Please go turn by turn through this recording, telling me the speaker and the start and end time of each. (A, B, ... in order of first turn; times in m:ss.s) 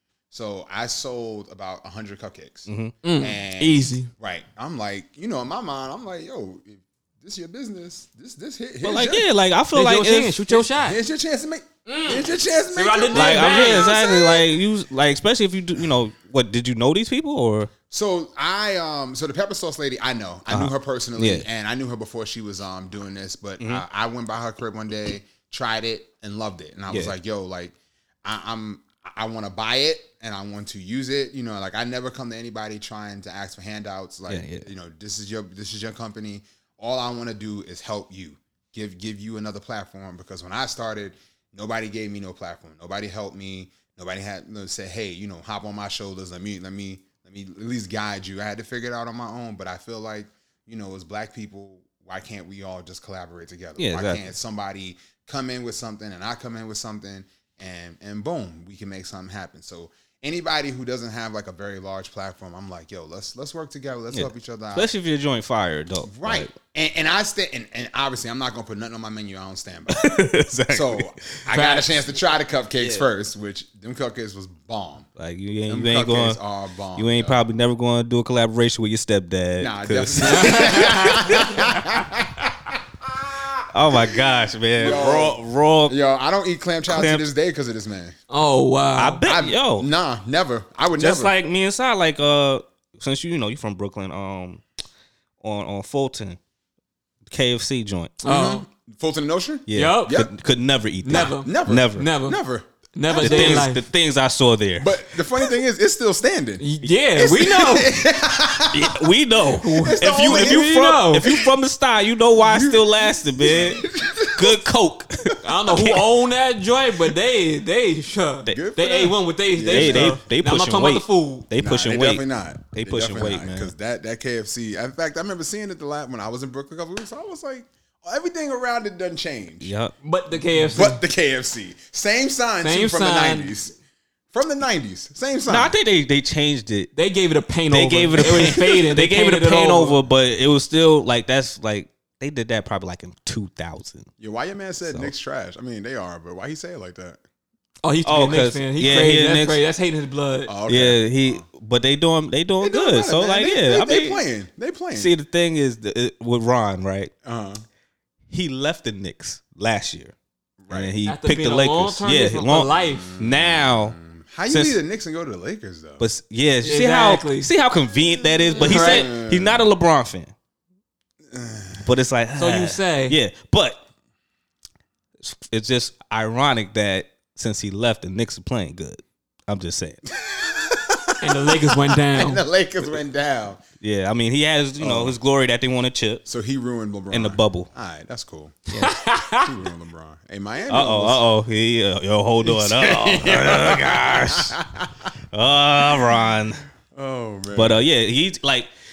0:00.3-0:09.3 A
0:02.7-0:02.9 B
0:03.0-0:04.1 C
0:08.8-0:10.6 B
0:09.7-0:11.0 C
0:10.7-0:14.4 A
0:11.8-0:14.0 C
0:13.1-0:17.7 B
0:17.9-1:04.9 A
0:20.5-0:21.4 B
0:34.3-0:34.6 B
0:53.8-0:54.2 B
1:04.1-1:06.5 B
1:06.0-1:15.1 A
1:09.9-1:11.3 B
1:11.5-1:11.9 C
1:12.8-1:13.0 B
1:15.2-1:16.4 B
1:15.7-1:17.4 A
1:17.0-1:21.7 B
1:19.6-1:28.1 A
1:20.2-1:21.5 C
1:23.7-1:26.0 B
1:26.9-1:27.2 B
1:28.3-1:29.2 C
1:29.0-1:29.9 B
1:29.2-1:31.3 A
1:31.0-1:34.6 B
1:35.4-1:36.4 B
1:37.3-1:38.2 B
1:38.2-1:38.6 C
1:38.2-1:40.3 A
1:39.7-1:42.1 B
1:39.7-1:40.2 C
1:41.0-1:42.4 C
1:41.1-1:43.7 A
1:42.9-1:43.8 C
1:43.2-1:45.0 B
1:44.8-1:49.0 A
1:46.6-1:48.0 C
1:48.7-1:56.1 B
1:49.6-1:51.3 C
1:49.8-1:50.7 A
1:52.4-1:54.6 A
1:55.4-2:01.5 C
1:58.5-2:00.2 A
1:59.6-2:03.7 B
2:01.5-2:09.7 A
2:09.6-2:09.9 B
2:10.0-2:11.0 C
2:10.6-2:13.8 A
2:12.6-2:13.5 C
2:14.3-2:15.7 A
2:15.5-2:16.9 B
2:16.9-2:20.0 C
2:17.7-2:24.1 B
2:24.2-2:27.2 A
2:27.8-2:30.5 C
2:28.0-2:29.6 B
2:30.5-2:31.4 A
2:30.7-2:34.2 B
2:32.6-2:35.1 A
2:34.9-2:37.1 B
2:37.2-2:37.6 A
2:38.3-2:40.1 B
2:40.6-2:40.9 A
2:40.7-2:44.0 B
2:41.0-2:43.1 C
2:42.8-2:46.0 A
2:44.5-2:44.8 B
2:46.0-2:50.3 B
2:46.6-2:47.5 C
2:48.6-2:49.7 A
2:48.6-2:49.1 C
2:51.3-2:51.9 A
2:51.8-2:53.8 B
2:52.4-2:53.2 C
2:55.2-3:00.0 B
3:00.1-3:03.6 A
3:01.2-3:02.4 C
3:03.8-3:06.2 B
3:04.8-3:05.2 A
3:06.2-3:08.7 A
3:07.1-3:07.7 B
3:08.8-3:09.5 C
3:09.4-3:11.2 A
3:10.7-3:14.6 B
3:12.4-3:15.0 A
3:15.3-3:16.6 B
3:16.9-3:17.8 A
3:17.5-3:18.7 B